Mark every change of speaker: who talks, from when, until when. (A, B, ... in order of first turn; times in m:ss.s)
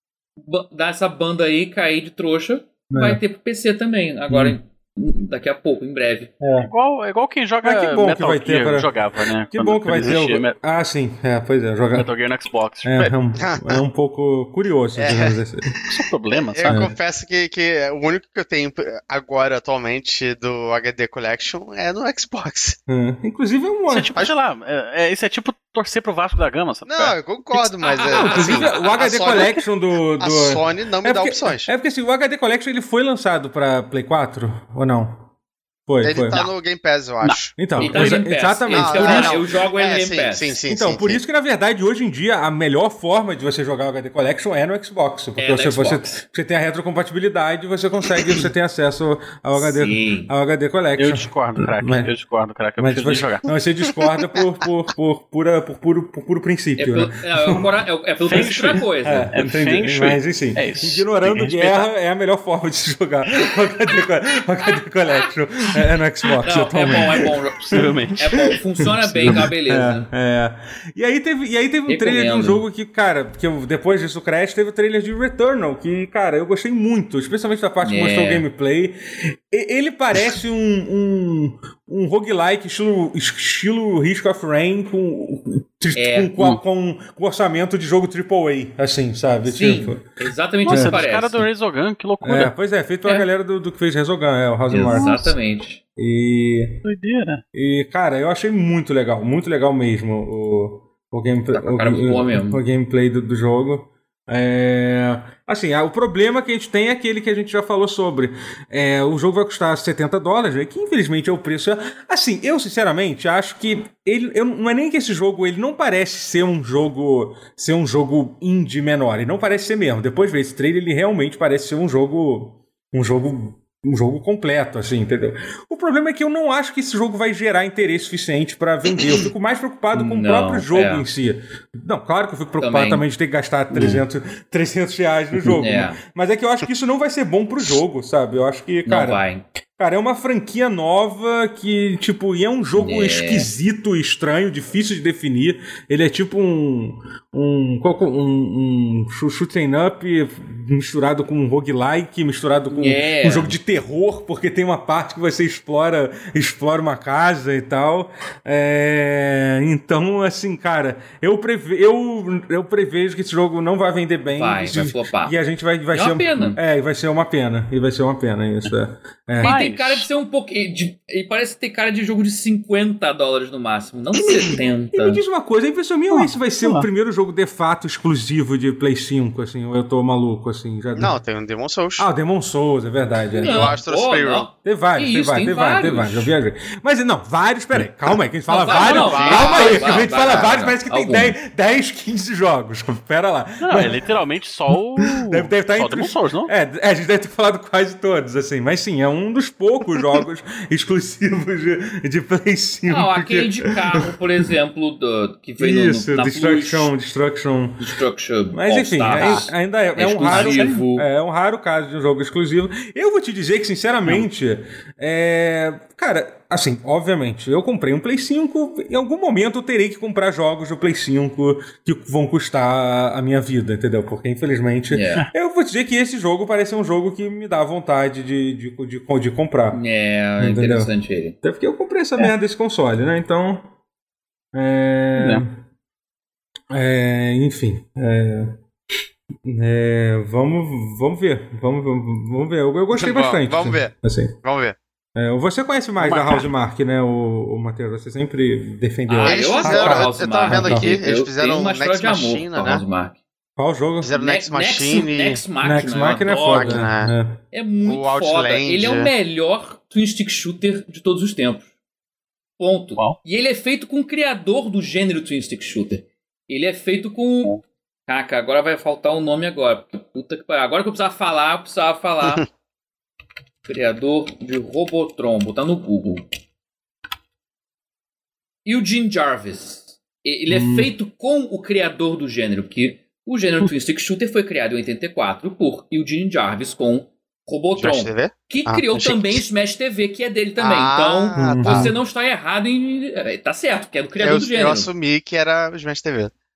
0:00.4-0:06.3 A
0:02.9-0:03.2 B
0:04.3-0:04.6 B
0:06.4-0:06.7 B
0:06.6-0:10.6 C
0:07.6-0:08.9 B
0:09.5-0:12.1 B
0:11.9-0:13.1 C
0:12.8-0:15.8 B
0:13.4-0:13.8 D
0:15.0-0:22.8 D
0:15.9-0:16.8 C
0:16.6-0:16.9 B
0:22.9-0:24.2 B
0:23.9-0:27.2 C
0:26.8-0:29.6 D
0:27.8-0:29.0 A
0:28.2-0:35.3 B
0:30.2-0:31.7 D
0:35.9-0:36.4 B
0:36.0-0:37.5 D
0:37.2-0:38.2 C
0:37.6-0:39.4 B
0:37.8-0:40.6 A
0:38.7-0:41.2 D
0:40.7-0:52.1 B
0:45.4-0:46.2 A
0:49.6-0:50.3 A
0:51.0-0:53.5 C
0:52.8-0:57.7 B
0:56.8-0:59.3 A
0:58.2-1:01.9 C
0:58.3-1:07.9 B
1:06.4-1:10.1 A
1:07.6-1:08.4 C
1:09.1-1:09.5 C
1:09.1-1:30.0 B
1:11.9-1:12.6 A
1:17.8-1:18.4 A
1:25.9-1:26.3 A
1:29.4-1:31.4 A
1:30.6-1:32.5 C
1:30.7-1:31.0 B
1:32.2-1:35.3 B
1:34.7-1:35.8 A
1:34.9-1:35.3 C
1:36.0-1:36.8 B
1:36.8-1:37.4 C
1:37.5-2:19.2 B
1:41.5-1:42.6 A
2:09.9-2:11.0 A
2:12.6-2:13.0 A
2:13.7-2:14.0 C
2:15.6-2:16.0 A
2:18.8-2:19.4 A
2:19.8-2:49.6 B
2:22.8-2:23.5 A
2:32.7-2:33.5 A
2:44.3-2:45.3 A
2:45.9-2:46.6 A
2:49.4-2:55.2 A
2:49.4-2:50.1 C
2:54.9-3:01.2 B
2:56.1-2:56.9 C
3:01.0-3:02.0 D
3:02.0-3:03.8 B
3:03.4-3:06.3 A
3:03.4-3:04.5 D
3:04.6-3:14.0 B
3:08.5-3:11.4 A
3:08.7-3:10.5 D
3:09.0-3:09.4 C
3:13.6-3:16.5 C
3:15.2-3:24.1 B
3:22.9-3:26.9 A
3:25.6-3:27.8 B
3:27.8-3:31.1 A
3:28.5-3:49.8 B
3:29.1-3:29.5 C
3:30.0-3:30.8 C
3:44.9-3:45.2 A
3:49.7-3:51.4 A
3:50.4-3:50.9 B
3:51.4-3:53.7 B
3:54.5-3:55.6 B
3:55.2-3:55.4 C
3:56.7-3:58.6 B
3:59.4-4:04.4 B
4:02.9-4:04.8 D
4:05.2-4:11.0 B
4:06.0-4:06.5 C
4:09.1-4:13.2 A
4:09.2-4:12.8 D
4:13.6-4:14.1 B
4:14.0-4:15.4 D
4:14.1-4:16.8 A
4:15.6-4:17.4 B
4:16.5-4:17.1 D
4:17.5-4:21.7 A
4:17.8-4:19.1 D
4:22.6-4:27.5 A
4:28.1-4:32.4 A
4:33.6-4:36.2 A
4:38.6-4:54.9 A
4:40.5-4:40.9 B
4:47.8-4:49.4 D
4:50.6-4:51.9 D
4:51.4-4:51.9 B
4:54.2-4:56.3 D